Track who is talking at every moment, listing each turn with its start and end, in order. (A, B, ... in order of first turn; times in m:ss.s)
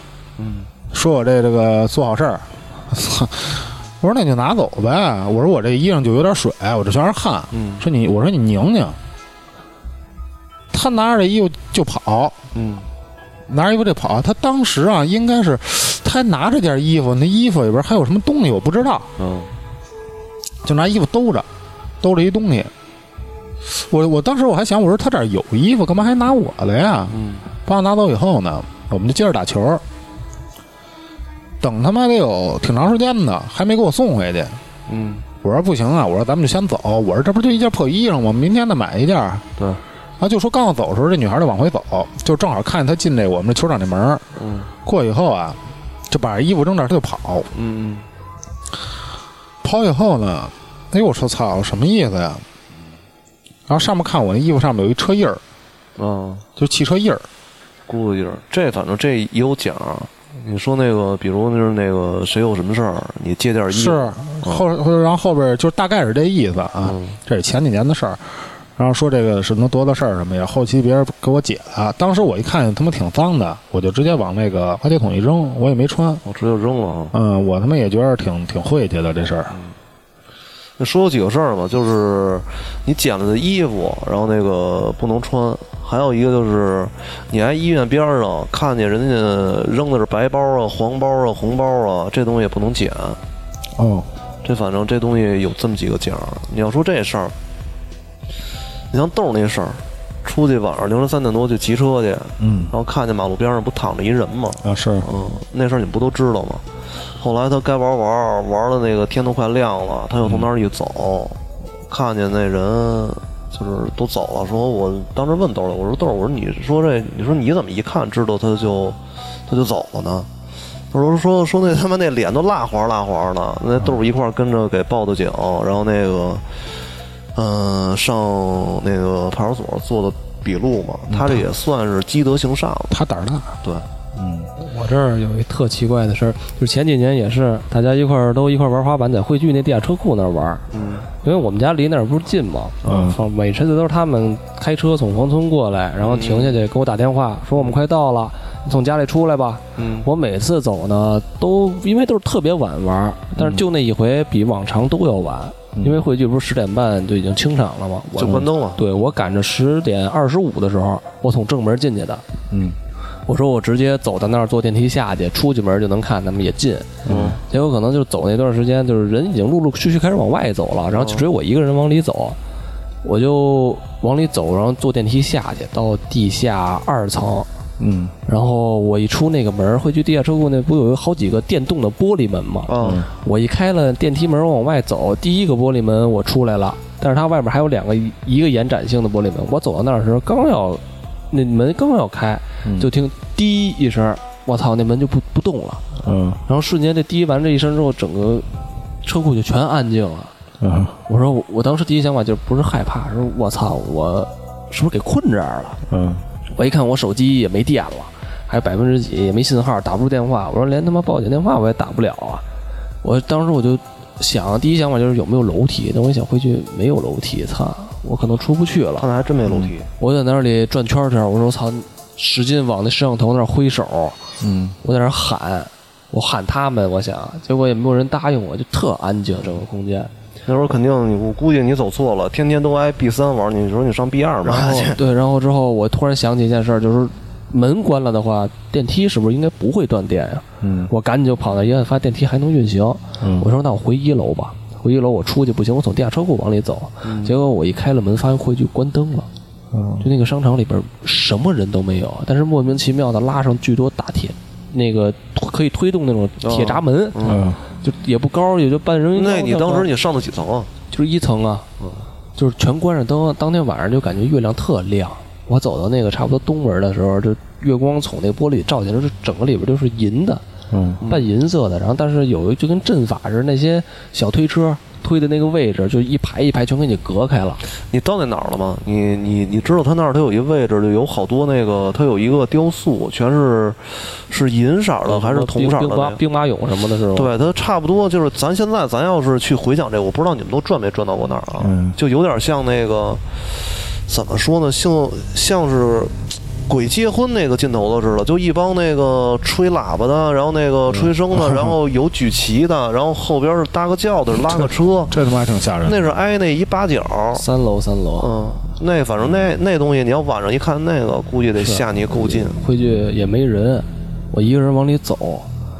0:00.4-0:00.7 A
0:00.9-0:09.0 B
0:07.5-0:07.8 A
0:10.7-0:12.4 B
0:12.5-0:12.9 A
0:13.5-0:19.1 B
0:19.2-0:19.5 A
0:20.6-0:21.5 B
0:22.0-0:22.7 B
0:23.6-0:29.8 B
0:27.1-0:27.4 A
0:31.6-0:34.6 B
0:34.9-0:35.2 A
0:35.4-0:39.4 B
0:39.6-0:39.8 A
0:40.2-0:44.2 B
0:44.4-0:44.7 A
0:44.8-0:45.6 B
0:46.1-0:47.5 B
0:47.5-0:48.0 A
0:49.6-0:52.4 B
0:53.7-0:55.4 B
0:56.0-0:56.4 A
0:56.6-0:57.3 B
0:57.9-1:04.6 A
1:03.7-1:16.2 B
1:06.8-1:07.2 A
1:16.2-1:17.1 A
1:17.1-1:19.5 B
1:20.8-1:33.2 A
1:33.8-1:34.1 B
1:34.4-1:37.3 A
1:38.9-1:46.6 A
1:42.4-1:42.7 B
1:44.6-1:45.0 B
1:47.2-2:00.3 A
2:00.9-2:06.4 A
2:07.3-2:13.0 A
2:11.1-2:11.4 B
2:12.9-2:13.5 B
2:14.1-2:14.5 B
2:14.6-2:20.6 C
2:20.7-2:21.1 A
2:21.2-2:42.2 C
2:22.8-2:23.1 A
2:22.9-2:23.2 B
2:26.0-2:26.6 A
2:29.8-2:30.1 A
2:35.8-2:36.0 B
2:38.2-2:38.8 A
2:42.5-2:42.8 B
2:43.3-2:52.4 C
2:47.0-2:47.4 B
2:47.1-2:47.4 A
2:50.9-2:51.2 A
2:53.0-2:57.5 C
2:57.8-2:58.1 B
2:58.2-3:15.8 C
3:02.7-3:03.0 A
3:12.6-3:12.9 B
3:16.0-3:16.4 B
3:16.4-3:18.4 C
3:19.0-3:20.3 C
3:20.6-3:21.0 B
3:21.1-3:25.8 C
3:25.9-3:26.2 B
3:26.5-3:32.4 C
3:33.0-3:39.1 C
3:39.0-3:39.9 A
3:40.0-3:44.2 C
3:44.4-3:44.7 B
3:44.8-3:50.1 C
3:50.4-3:55.0 A
3:54.4-4:09.3 C
4:00.6-4:00.9 B
4:03.2-4:03.5 B
4:07.0-4:07.3 A
4:09.7-4:10.1 B
4:10.0-4:19.9 C
4:16.4-4:17.5 A
4:17.3-4:17.6 B
4:19.1-4:20.7 A
4:20.9-4:21.7 C
4:22.4-4:30.4 C
4:30.7-4:31.0 B
4:31.0-4:31.2 A
4:31.0-4:37.6 C
4:37.9-4:46.2 A
4:45.0-4:47.3 C
4:47.1-4:53.2 A
4:51.6-4:52.0 B
4:54.0-5:05.1 A
5:01.0-5:01.7 B
5:04.5-5:06.0 B
5:05.8-5:07.4 A
5:07.3-5:08.3 C
5:08.2-5:12.6 A
5:11.6-5:15.5 C